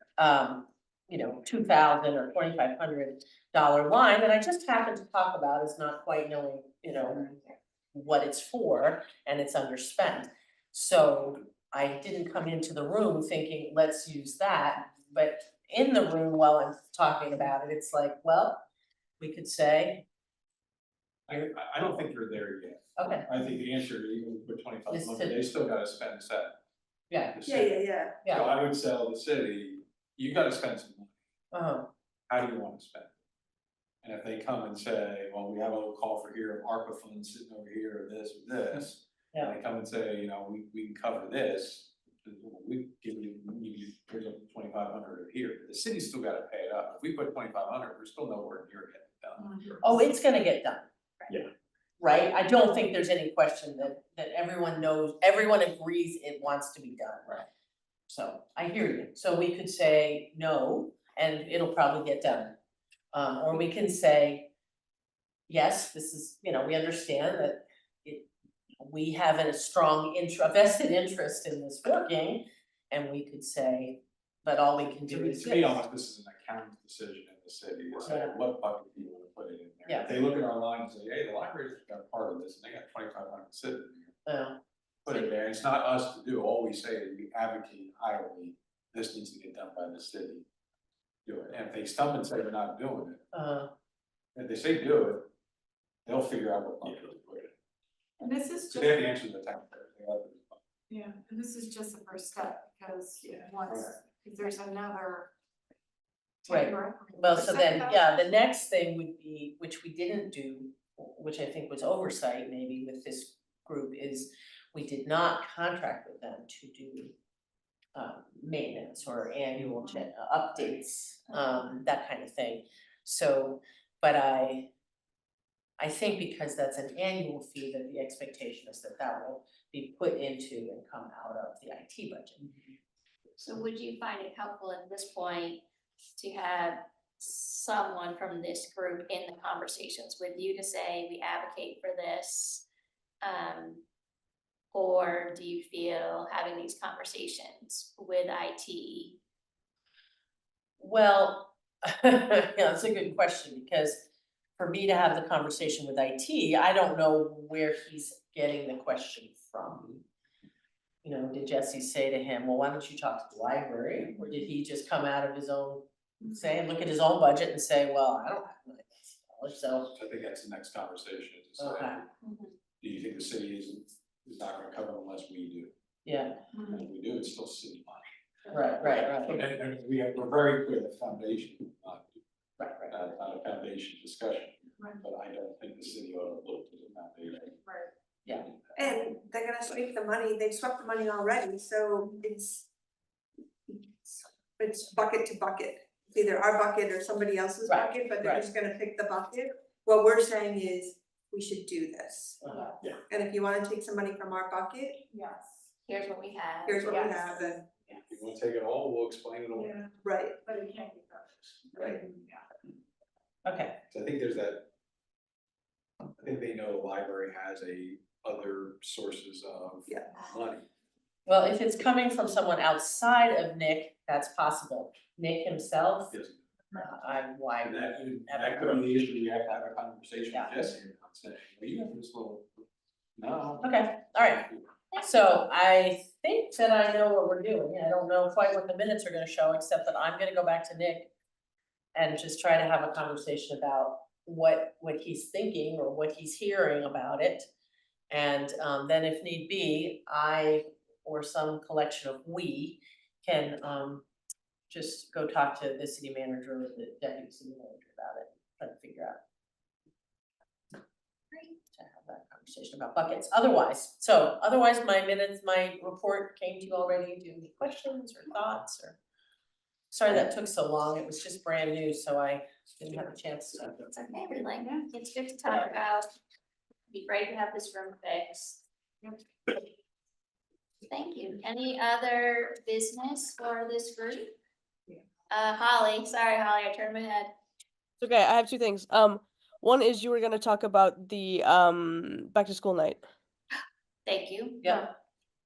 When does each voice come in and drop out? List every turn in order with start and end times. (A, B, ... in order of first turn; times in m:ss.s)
0:00.2-0:07.3 A
0:07.9-0:18.6 A
0:19.2-0:20.0 A
0:21.3-0:26.6 B
0:23.0-0:23.3 A
0:24.9-0:25.4 A
0:27.1-0:27.4 A
0:27.3-0:31.1 B
0:27.4-0:28.2 C
0:31.5-0:31.9 A
0:32.3-0:33.1 B
0:34.0-0:50.0 B
0:49.8-0:51.3 A
0:52.0-0:57.4 A
0:58.1-1:02.6 A
1:03.1-1:04.5 A
1:05.5-1:08.3 A
1:08.8-1:15.8 A
1:15.1-1:24.2 B
1:18.0-1:18.3 A
1:24.2-1:24.6 A
1:25.0-1:30.4 B
1:31.2-1:33.2 B
1:33.3-1:33.7 A
1:34.4-1:35.3 B
1:36.0-1:37.5 B
1:38.2-1:39.1 D
1:38.6-1:40.6 B
1:40.9-1:45.3 D
1:46.4-1:48.0 D
1:46.5-1:57.1 A
1:57.9-2:04.7 A
2:05.8-2:12.4 A
2:13.4-2:15.6 E
2:16.2-2:22.6 E
2:23.2-2:23.8 E
2:24.7-2:29.2 E
2:30.8-2:40.0 A
2:41.0-2:50.0 A
2:49.9-2:52.1 B
2:51.6-2:52.0 A
2:52.8-2:55.7 B
2:56.0-2:56.4 A
2:56.6-2:58.1 B
2:58.5-2:59.4 A
2:58.8-3:02.1 B
3:02.6-3:02.9 A
3:02.9-3:07.6 B
3:08.3-3:08.8 B
3:08.8-3:12.6 C
3:13.7-3:22.4 C
3:17.7-3:18.5 A
3:22.4-3:22.7 A
3:22.4-3:22.7 D
3:23.1-3:25.0 C
3:25.1-3:25.6 D
3:25.8-3:27.4 E
3:26.6-3:27.6 C
3:26.9-3:27.3 D
3:27.9-3:29.8 B
3:29.5-3:32.4 D
3:30.0-3:30.4 C
3:31.8-3:32.0 C
3:33.4-3:33.8 A
3:33.9-3:34.7 B
3:36.2-3:40.6 B
3:39.9-3:40.2 C
3:41.2-3:46.2 A
3:46.1-3:46.4 B
3:46.7-3:48.9 A
3:47.6-3:52.6 B
3:53.2-3:53.7 B
3:53.6-4:01.1 A
3:54.4-3:54.7 B
4:01.9-4:07.5 A
4:08.1-4:14.0 A
4:14.7-4:19.2 A
4:21.7-4:29.0 A
4:29.9-4:33.8 A
4:33.9-4:36.1 E
4:36.9-4:38.6 E
4:40.9-4:44.3 E
4:45.3-4:47.4 E
4:48.0-4:53.1 F
4:54.0-4:54.9 E